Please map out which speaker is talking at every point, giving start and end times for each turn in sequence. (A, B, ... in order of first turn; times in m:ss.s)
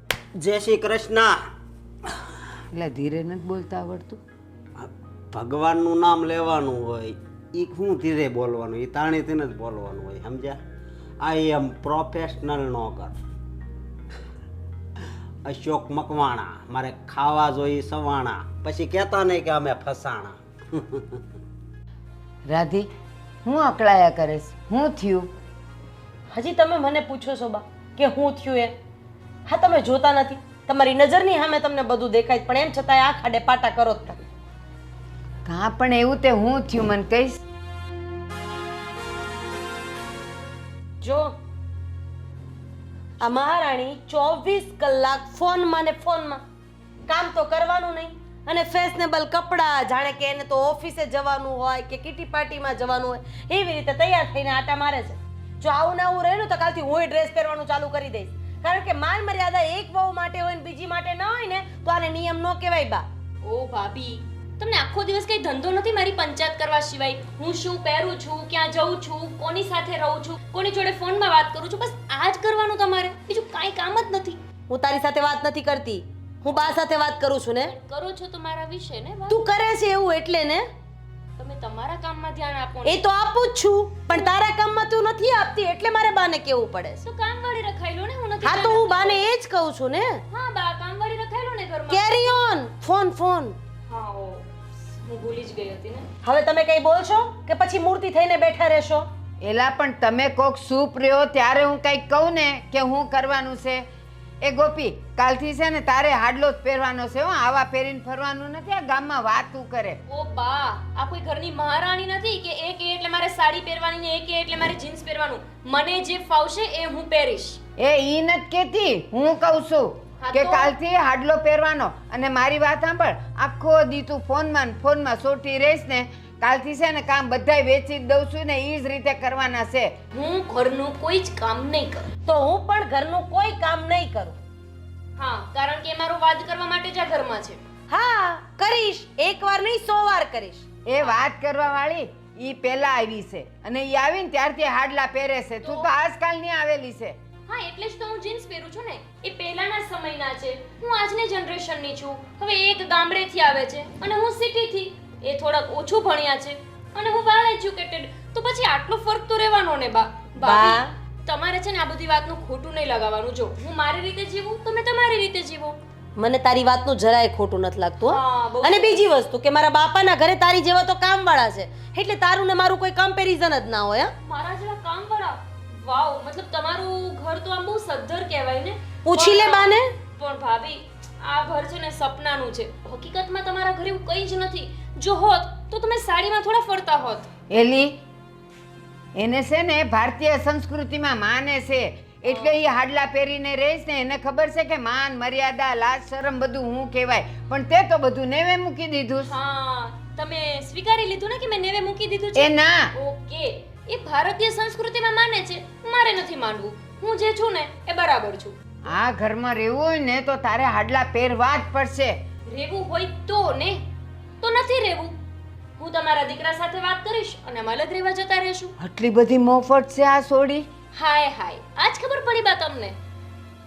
0:00.4-0:01.4 A
0:02.7-0:04.2 B
0:04.8-0:10.6 A
0:11.2-0:13.1 A
0:15.4-0:21.2 A
0:22.4-0:22.9 B
0:23.4-0:25.3 B
0:26.3-0:28.7 C
0:29.5-0:34.2 C
0:35.4-0:37.4 B
0:41.0-0:41.3 C
0:43.2-0:46.4 C
0:47.1-1:03.0 C
1:03.4-1:14.4 D
1:14.7-1:17.7 C
1:17.7-1:19.4 D
1:19.3-1:20.6 C
1:21.4-1:23.0 D
1:22.9-1:27.0 C
1:24.1-1:24.3 D
1:27.0-1:29.3 D
1:28.4-1:30.2 C
1:30.3-1:32.3 D
1:31.9-1:33.5 C
1:33.9-1:36.0 D
1:36.2-1:39.0 C
1:39.4-1:43.8 B
1:44.4-1:50.0 B
1:50.1-1:57.6 D
1:57.8-2:09.9 B
2:00.2-2:00.7 D
2:10.1-2:12.1 D
2:12.2-2:14.4 C
2:15.2-2:17.6 D
2:17.9-2:20.6 C
2:20.8-2:27.2 B
2:25.6-2:25.9 D
2:27.5-2:45.8 D
2:40.4-2:40.9 C
2:46.2-2:54.1 C
2:48.1-2:49.0 D
2:54.2-3:07.3 D
2:59.1-2:59.9 C
3:07.5-3:08.0 B
3:09.2-3:19.3 B
3:12.3-3:12.5 D
3:19.2-3:28.5 D
3:22.3-3:22.9 B
3:28.8-3:32.2 B
3:32.5-3:33.8 D
3:34.4-3:35.1 D
3:35.8-3:38.7 D
3:38.8-3:40.6 B
3:40.9-3:43.0 D